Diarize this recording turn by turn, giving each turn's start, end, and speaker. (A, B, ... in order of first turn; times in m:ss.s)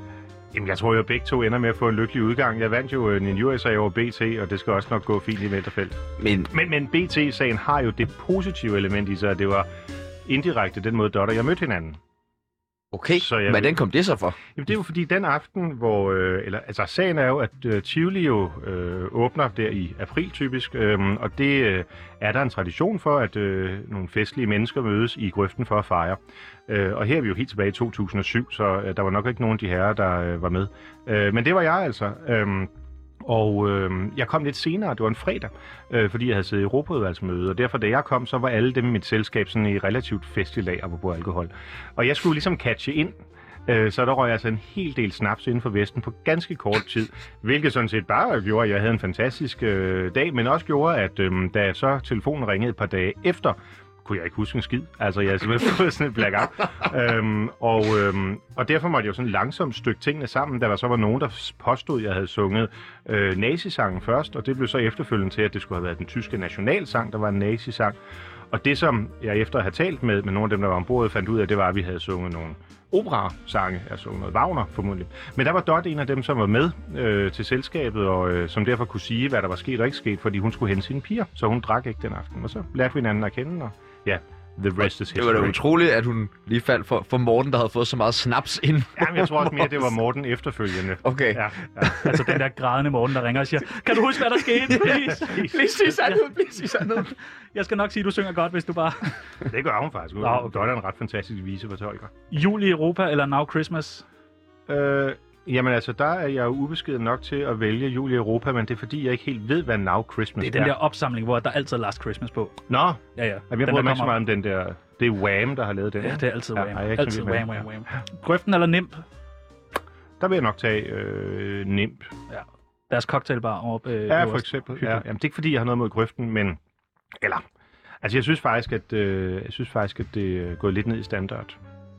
0:00.5-0:06.0 A
0:06.2-0:06.5 B
0:06.5-0:09.7 A
0:10.2-0:12.0 A
0:12.9-0:14.4 B
0:13.2-0:13.8 A
0:14.5-0:32.7 A
0:33.2-0:43.1 A
0:43.7-1:08.0 A
1:08.5-1:25.6 A
1:24.8-1:29.8 B
1:29.0-1:32.3 A
1:31.0-1:32.1 B
1:32.0-1:39.2 C
1:34.6-1:37.1 B
1:35.2-1:35.5 A
1:39.5-1:42.1 A
1:40.2-1:40.7 C
1:42.3-1:44.0 C
1:44.7-1:50.7 A
1:50.4-1:52.6 C
1:52.7-1:57.6 A
1:53.2-1:54.2 C
1:56.0-1:59.0 C
2:00.2-2:02.1 A
2:02.3-2:05.0 C
2:04.1-2:06.6 A
2:08.0-2:11.6 A